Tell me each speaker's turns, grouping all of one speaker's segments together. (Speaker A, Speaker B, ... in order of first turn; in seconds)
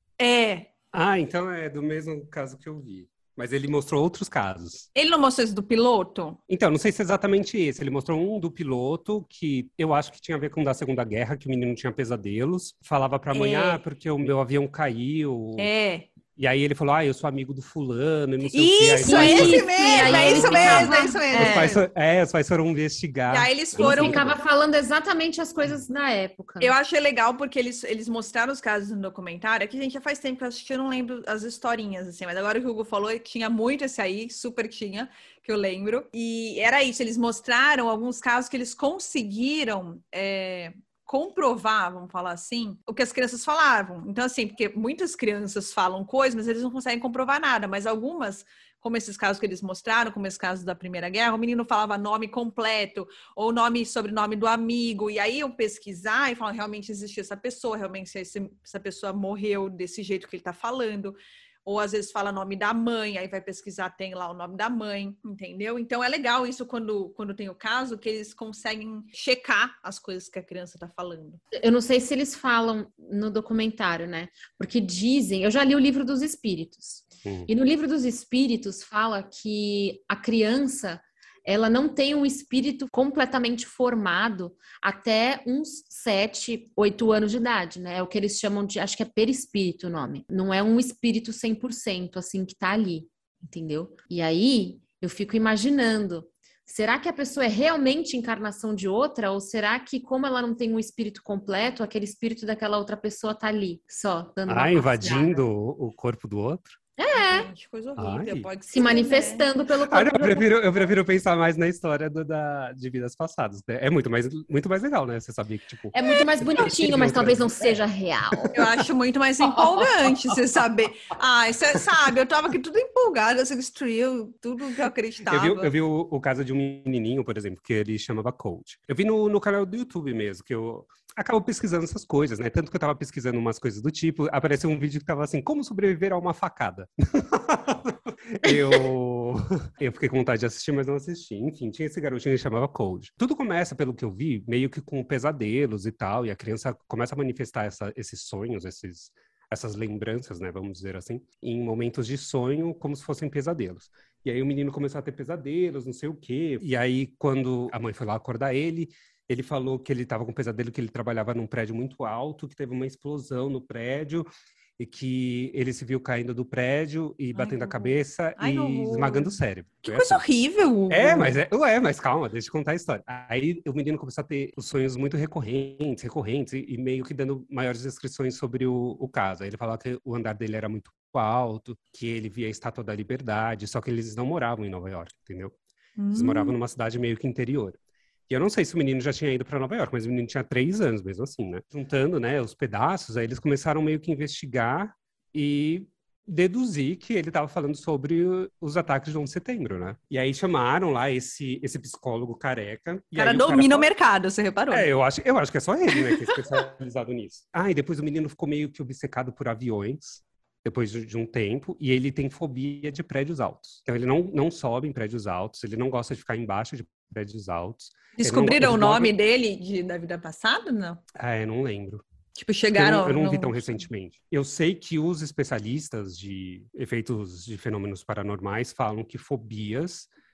Speaker A: 0.2-0.7, 4.9-6.4, 13.3-13.8, 15.6-16.1, 18.5-21.8, 23.3-24.4, 26.6-71.4, 107.1-109.5, 118.5-125.7, 167.3-171.4, 186.0-186.6, 203.1-204.9, 205.9-206.4, 218.2-221.0, 222.3-223.8
Speaker B: 0.9-4.9, 6.5-15.7, 16.4-24.4, 104.5-106.8, 108.0-108.5, 109.8-117.8, 125.3-164.3, 164.8-170.2, 170.9-185.5, 186.1-187.8, 188.3-203.9, 204.7-219.1, 221.1-222.0, 222.7-230.1
Speaker C: 19.0-21.7, 23.8-26.7, 71.5-105.4, 107.0-107.5, 108.7-110.5, 115.9-118.6, 138.5-138.8